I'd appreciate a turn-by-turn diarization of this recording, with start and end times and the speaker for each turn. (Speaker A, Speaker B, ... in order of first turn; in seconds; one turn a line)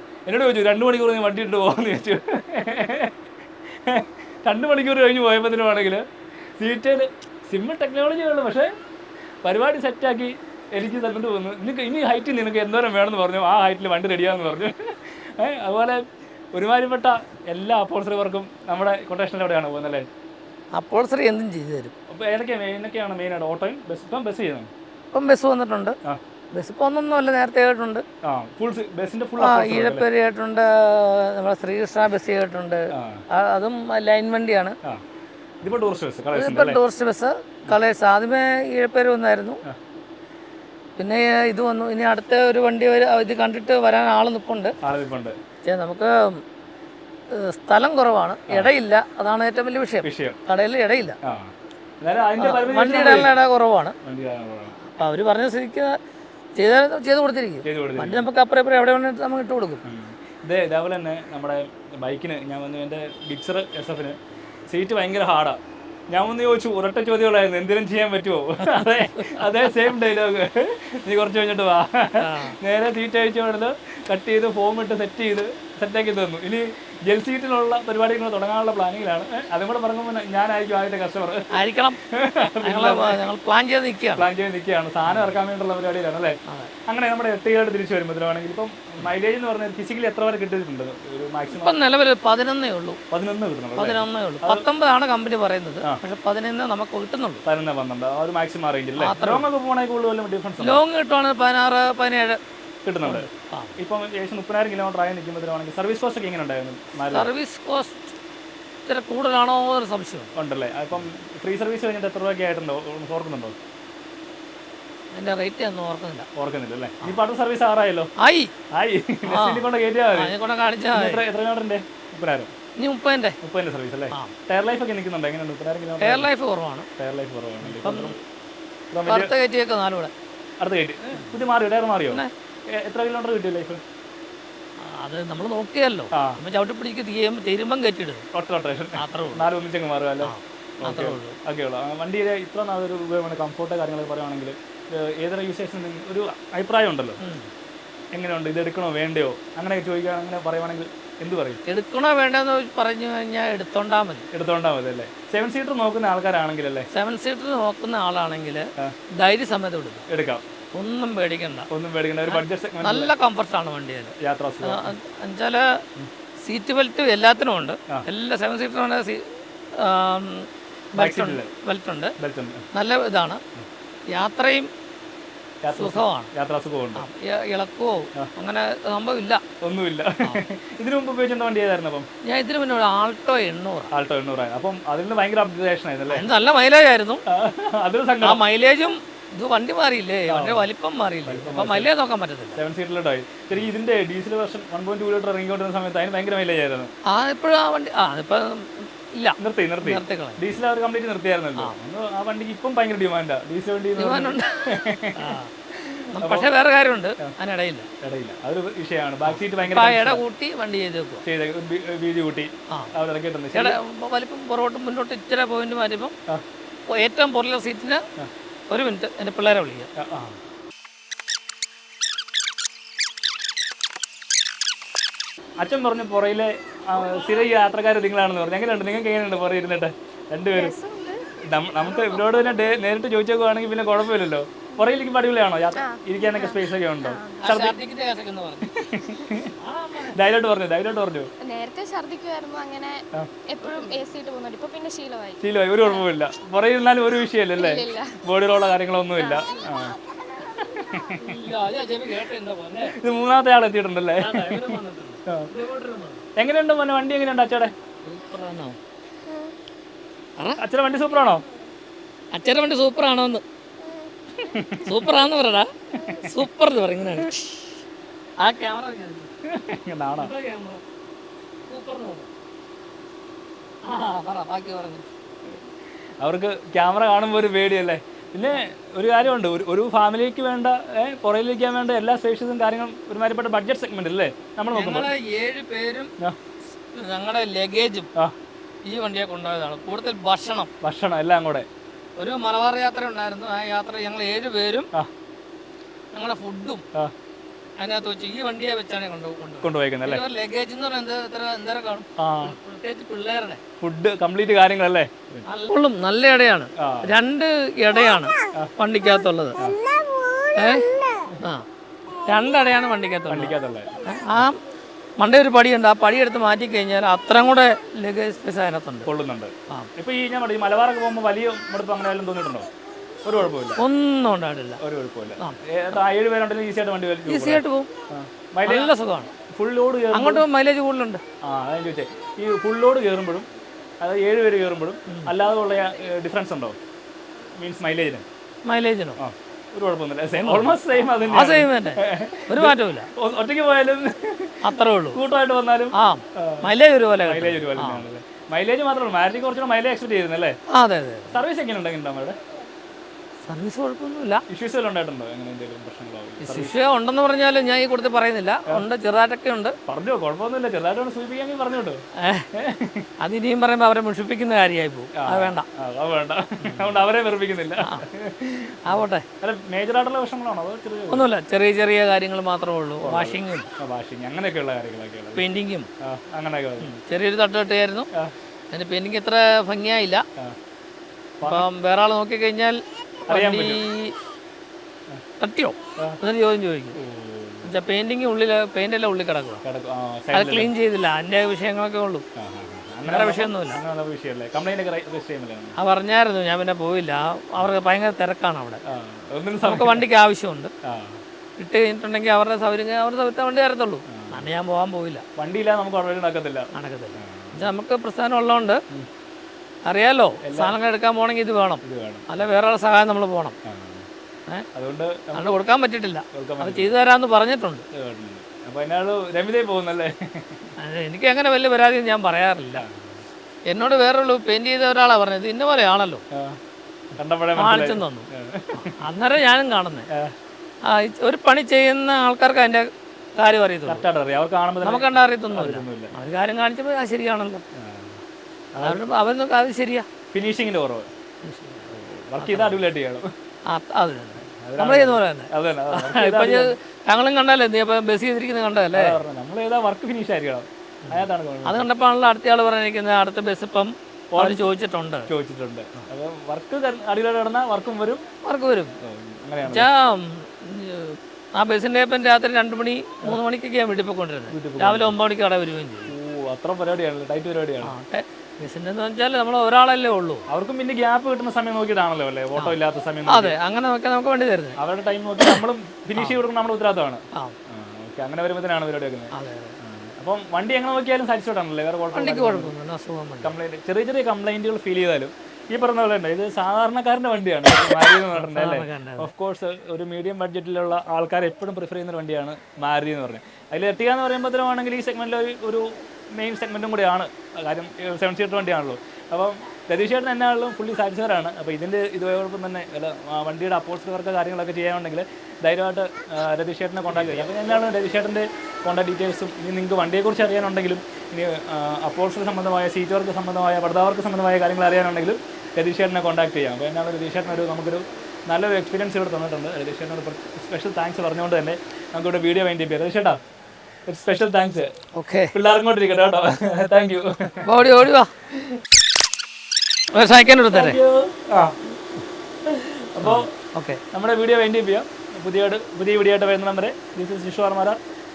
Speaker A: 0.3-3.1
Speaker A: 3.8-6.0
Speaker A: 6.6-8.7
Speaker A: 9.4-20.1
Speaker B: 20.8-21.9
Speaker A: 22.1-24.7
Speaker B: 25.1-25.9
Speaker B: 26.5-28.0
Speaker A: 28.2-30.1
Speaker B: 29.4-34.8
Speaker A: 32.9-33.2
Speaker A: 35.6-36.8
Speaker B: 36.3-39.6
Speaker B: 41.0-44.8
Speaker A: 44.8-45.4
Speaker B: 45.6-46.4
Speaker B: 47.3-51.2
Speaker A: 50.0-50.4
Speaker A: 51.2-53.3
Speaker B: 52.4-54.0
Speaker A: 54.0-54.8
Speaker B: 54.8-56.0
Speaker B: 56.5-59.8
Speaker A: 57.6-58.2
Speaker A: 59.8-64.2
Speaker A: 64.7-65.6
Speaker A: 66.1-83.2
Speaker B: 69.2-69.7
Speaker B: 72.2-72.6
Speaker B: 81.5-82.0
Speaker B: 82.6-84.3
Speaker A: 84.2-91.8
Speaker B: 85.1-85.3
Speaker B: 86.5-86.7
Speaker B: 91.5-93.0
Speaker A: 93.1-94.7
Speaker B: 93.8-97.4
Speaker A: 97.4-100.8
Speaker B: 99.0-99.5
Speaker B: 100.6-102.4
Speaker A: 102.8-107.3
Speaker B: 103.0-103.7
Speaker B: 107.1-108.1
Speaker B: 108.8-110.3
Speaker A: 110.3-113.5
Speaker B: 115.1-116.3
Speaker A: 116.3-118.1
Speaker B: 118.2-118.5
Speaker A: 118.7-120.3
Speaker B: 119.3-121.2
Speaker A: 120.9-122.5
Speaker B: 122.8-123.4
Speaker A: 123.4-126.3
Speaker B: 126.0-126.9
Speaker A: 127.0-128.2
Speaker B: 127.6-128.1
Speaker A: 128.9-129.3
Speaker B: 129.1-130.1
Speaker A: 130.6-133.8
Speaker B: 134.8-138.3
Speaker A: 136.1-136.4
Speaker A: 138.3-147.2
Speaker B: 138.9-139.5
Speaker B: 140.2-141.4
Speaker B: 147.2-147.5
Speaker A: 148.1-151.6
Speaker B: 151.7-154.2
Speaker A: 154.3-156.9
Speaker B: 156.9-160.0
Speaker A: 160.1-160.4
Speaker B: 160.7-161.7
Speaker A: 161.7-163.1
Speaker B: 162.3-165.8
Speaker A: 164.2-164.9
Speaker B: 166.4-172.1
Speaker A: 170.9-171.5
Speaker A: 172.2-172.6
Speaker B: 172.7-173.4
Speaker B: 174.1-174.7
Speaker A: 175.6-177.1
Speaker B: 175.7-176.3
Speaker B: 176.9-179.4
Speaker A: 179.6-182.1
Speaker B: 182.2-183.9
Speaker A: 183.9-186.3
Speaker B: 186.1-187.2
Speaker A: 187.3-188.4
Speaker B: 188.2-192.6
Speaker A: 190.3-190.7
Speaker A: 191.2-191.9
Speaker A: 192.6-196.9
Speaker B: 197.1-200.4
Speaker A: 199.4-206.5
Speaker B: 204.0-205.5
Speaker B: 206.1-207.9
Speaker A: 208.0-210.2
Speaker B: 209.2-211.2
Speaker A: 211.2-213.8
Speaker B: 213.5-216.1
Speaker B: 216.9-218.0
Speaker B: 218.7-219.9
Speaker A: 220.0-220.4
Speaker A: 225.6-230.8
Speaker C: 230.6-231.3
Speaker A: 231.4-237.8
Speaker C: 231.9-232.4
Speaker C: 235.8-236.6
Speaker C: 237.1-237.4
Speaker B: 237.4-238.7
Speaker A: 238.7-239.5
Speaker B: 239.6-240.2
Speaker A: 240.1-241.3
Speaker C: 241.4-245.4
Speaker A: 245.4-251.4
Speaker C: 247.6-248.2
Speaker C: 249.3-249.7
Speaker B: 251.1-252.9
Speaker A: 252.9-255.5
Speaker B: 254.2-256.2
Speaker A: 256.4-257.7
Speaker B: 258.0-258.8
Speaker A: 260.6-261.4
Speaker B: 262.3-263.4
Speaker A: 264.4-265.0
Speaker B: 264.8-267.7
Speaker A: 265.9-266.4
Speaker B: 268.4-269.3
Speaker A: 269.4-270.3
Speaker B: 270.1-270.8
Speaker B: 271.7-272.3
Speaker B: 273.8-275.0
Speaker A: 276.2-285.1
Speaker B: 284.7-286.1
Speaker B: 286.9-288.1
Speaker B: 288.9-290.7
Speaker A: 290.8-291.7
Speaker B: 292.2-294.9
Speaker B: 296.1-296.8
Speaker B: 297.8-303.6
Speaker A: 299.6-300.2
Speaker A: 302.2-302.6
Speaker A: 303.8-305.4
Speaker B: 305.4-309.6
Speaker A: 306.8-307.1
Speaker A: 309.6-309.8
Speaker C: 310.0-310.4
Speaker B: 310.5-311.6
Speaker B: 312.3-313.5
Speaker A: 313.3-314.5
Speaker B: 314.1-314.6
Speaker B: 315.2-319.1
Speaker A: 319.0-322.7
Speaker A: 323.2-323.8
Speaker B: 323.8-324.8
Speaker A: 324.8-328.9
Speaker B: 327.2-327.9
Speaker B: 328.6-329.3
Speaker A: 329.5-330.4
Speaker B: 330.1-331.2
Speaker A: 331.4-333.4
Speaker A: 334.0-336.8
Speaker A: 337.6-338.2
Speaker B: 338.6-339.2
Speaker A: 339.2-346.7
Speaker B: 340.4-343.1
Speaker B: 344.6-345.2
Speaker B: 345.9-348.0
Speaker A: 347.2-350.6
Speaker B: 350.7-351.3
Speaker A: 351.3-352.4
Speaker B: 353.5-354.4
Speaker A: 354.5-356.7
Speaker B: 356.4-359.8
Speaker A: 359.9-362.0
Speaker B: 362.2-362.5
Speaker A: 362.5-363.1
Speaker B: 363.2-365.6
Speaker A: 365.1-371.3
Speaker B: 366.6-367.0
Speaker B: 368.8-369.2
Speaker B: 371.1-373.7
Speaker A: 373.0-375.4
Speaker B: 375.3-375.9
Speaker A: 376.0-376.9
Speaker B: 376.8-378.1
Speaker B: 378.7-380.2
Speaker A: 381.4-381.7
Speaker B: 381.4-384.1
Speaker A: 383.3-383.8
Speaker B: 385.4-387.0
Speaker A: 387.0-387.7
Speaker B: 387.6-389.6
Speaker A: 389.6-390.7
Speaker B: 390.3-392.2
Speaker A: 392.3-395.8
Speaker B: 393.1-393.8
Speaker B: 395.8-398.8
Speaker A: 398.8-400.1
Speaker B: 399.6-400.7
Speaker A: 400.8-401.2
Speaker B: 401.6-405.2
Speaker A: 404.1-404.5
Speaker A: 405.4-407.7
Speaker B: 406.7-408.8
Speaker B: 409.9-413.6
Speaker A: 410.4-410.8
Speaker A: 411.8-412.4
Speaker A: 413.6-414.1
Speaker A: 414.7-415.5
Speaker B: 415.3-417.8
Speaker A: 416.3-416.9
Speaker A: 417.9-420.7
Speaker B: 420.8-422.8
Speaker A: 422.8-423.2
Speaker B: 423.7-426.2
Speaker A: 426.3-426.6
Speaker A: 427.1-429.0
Speaker B: 427.6-430.1
Speaker B: 430.8-434.0
Speaker A: 433.9-436.1
Speaker B: 434.8-437.6
Speaker A: 437.7-438.2
Speaker A: 438.7-439.0
Speaker B: 438.8-440.1
Speaker A: 440.3-441.1
Speaker B: 441.4-442.8
Speaker A: 441.9-443.3
Speaker B: 443.7-449.2
Speaker A: 444.4-446.7
Speaker A: 448.9-451.9
Speaker B: 451.0-455.3
Speaker A: 454.3-454.7
Speaker A: 455.3-458.2
Speaker B: 458.4-458.9
Speaker A: 459.0-459.9
Speaker B: 459.6-466.1
Speaker A: 464.5-465.1
Speaker A: 466.1-467.9
Speaker B: 467.8-470.4
Speaker A: 470.5-473.6
Speaker B: 472.6-474.8
Speaker A: 474.8-482.7
Speaker B: 479.3-479.8
Speaker B: 482.1-483.5
Speaker A: 483.4-523.4
Speaker B: 487.9-489.3
Speaker A: 524.1-524.9
Speaker B: 525.1-525.5
Speaker A: 525.5-528.0
Speaker B: 527.6-528.3
Speaker B: 530.1-531.0
Speaker A: 530.7-531.8
Speaker A: 532.6-533.5
Speaker B: 533.2-534.0
Speaker A: 534.1-538.0